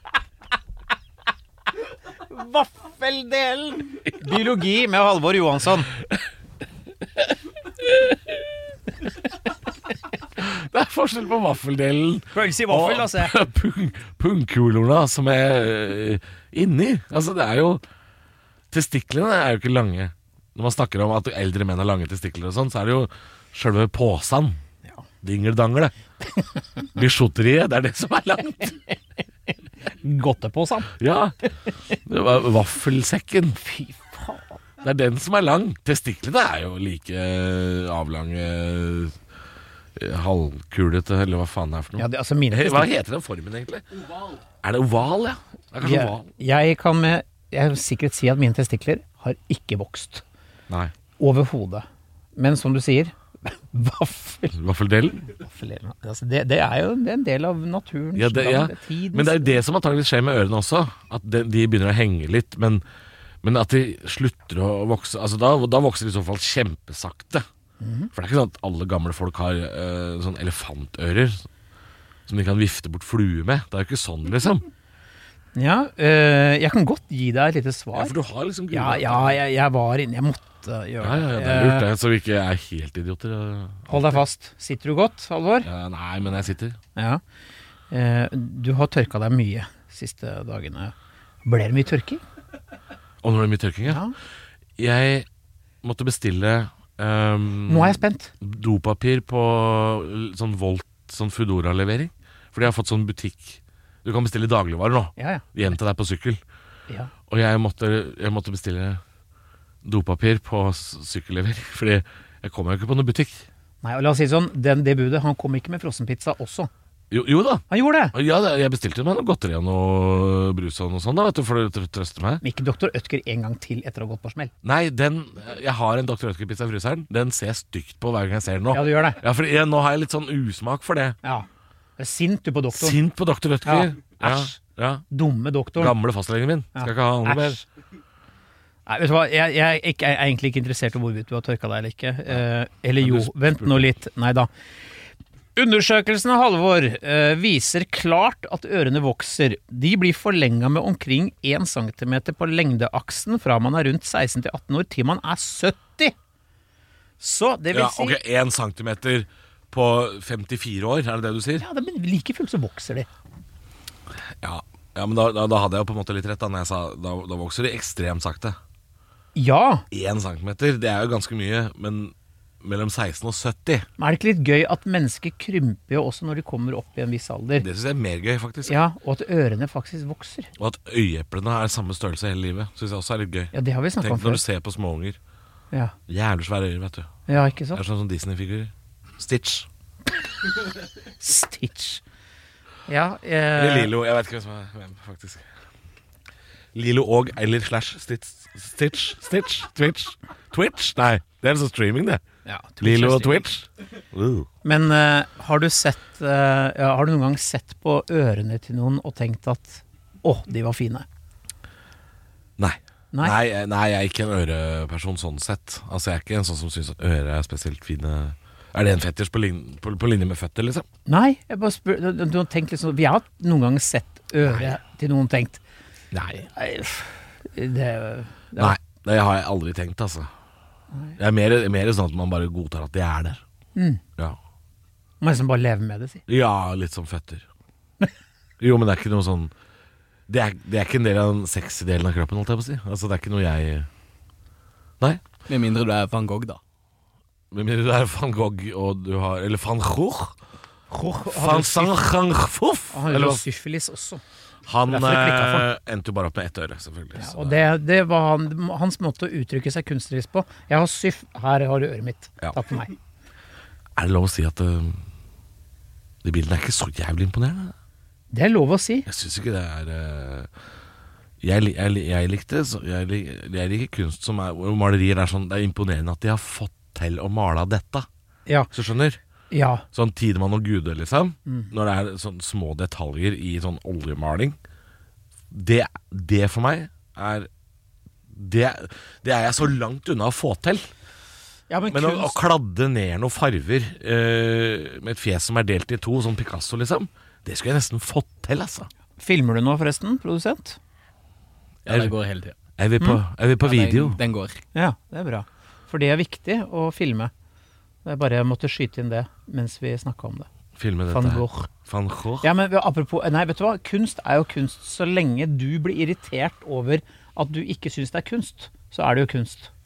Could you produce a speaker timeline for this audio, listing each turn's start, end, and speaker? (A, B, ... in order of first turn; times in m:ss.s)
0:02.3-0:05.9 A
0:07.8-0:08.2 B
0:10.4-0:17.8 B
0:12.3-0:13.3 A
0:18.7-0:24.6 B
0:25.2-0:25.9 B
0:26.9-0:28.8 B
0:30.0-0:30.9 A
0:31.0-0:31.4 B
0:32.0-0:33.6 B
0:33.6-0:34.6 A
0:34.8-0:39.2 B
0:40.0-0:43.8 B
0:42.0-0:42.9 A
0:44.6-0:46.3 B
0:45.8-0:50.2 A
0:51.2-0:54.6 A
0:54.5-0:55.3 B
0:55.4-0:59.6 A
0:58.2-1:02.8 B
1:03.4-1:07.5 B
1:07.8-1:08.1 A
1:08.1-1:11.5 B
1:12.3-1:14.7 B
1:15.6-1:18.1 A
1:17.9-1:19.4 B
1:18.7-1:21.9 A
1:21.0-1:24.2 B
1:23.9-1:25.7 A
1:25.6-1:26.8 B
1:27.0-1:27.2 A
1:27.9-1:30.9 A
1:31.4-1:32.2 A
1:33.2-1:34.0 B
1:33.9-1:34.1 A
1:34.8-1:35.3 B
1:35.8-1:46.4 B
1:37.7-1:38.3 A
1:45.2-1:45.7 A
1:47.3-1:49.0 B
1:49.8-1:53.5 B
1:53.8-1:56.7 A
1:57.1-2:02.4 B
1:57.7-1:58.2 A
2:02.4-2:04.5 A
2:04.6-2:11.2 B
2:08.7-2:09.2 A
2:12.0-2:13.0 A
2:12.7-2:15.0 B
2:13.6-2:14.6 A
2:15.1-2:16.0 A
2:15.8-2:17.6 B
2:16.8-2:17.6 A
2:18.9-2:24.5 A
2:23.0-2:23.9 B
2:25.6-2:36.2 A
2:37.2-2:38.2 A
2:37.7-2:41.6 B
2:41.6-2:43.1 A
2:44.2-2:48.6 B
2:49.4-2:49.9 A
2:49.9-2:53.9 B
2:54.0-2:57.7 A
2:57.6-2:58.8 B
2:58.6-3:00.5 A
3:00.6-3:05.2 B
3:03.5-3:04.4 A
3:06.1-3:07.1 B
3:07.3-3:07.8 A
3:07.7-3:09.7 B
3:11.2-3:12.0 A
3:12.9-3:13.9 A
3:13.6-3:15.5 B
3:16.7-3:22.2 B
3:22.5-3:23.5 A
3:22.8-3:24.5 B
3:24.6-3:31.1 A
3:32.6-3:40.9 B
3:41.1-3:45.6 A
3:44.5-3:44.8 B
3:46.1-3:46.4 B
3:46.4-3:48.8 A
3:48.6-3:50.3 B
3:50.9-3:51.2 A
3:51.2-3:53.4 B
3:53.8-3:54.0 A
3:55.2-3:56.2 A
3:56.3-3:57.5 B
3:58.6-3:59.5 B
4:00.3-4:03.9 B
4:05.5-4:06.6 C
4:07.5-4:10.4 B
4:10.9-4:12.0 A
4:11.3-4:13.4 B
4:12.9-4:14.2 A
4:14.7-4:17.6 B
4:14.9-4:15.7 A
4:17.2-4:23.0 A
4:24.0-4:25.0 B
4:26.2-4:27.7 B
4:28.3-4:29.1 A
4:29.1-4:30.5 B
4:31.4-4:38.1 B
4:38.7-4:39.2 B
4:39.5-4:39.8 A
4:39.9-4:44.6 B
4:41.5-4:41.7 A
4:45.5-4:47.5 B
4:48.3-4:50.9 B
4:51.7-4:52.4 A
4:51.9-4:58.9 B
4:59.2-5:00.8 A
5:01.8-5:02.6 C
5:01.9-5:02.1 B
5:02.8-5:04.2 B
5:03.6-5:04.6 C
5:04.7-5:07.3 A
5:08.0-5:10.5 A
5:10.8-5:12.5 B
5:11.1-5:11.7 A
5:12.4-5:19.7 A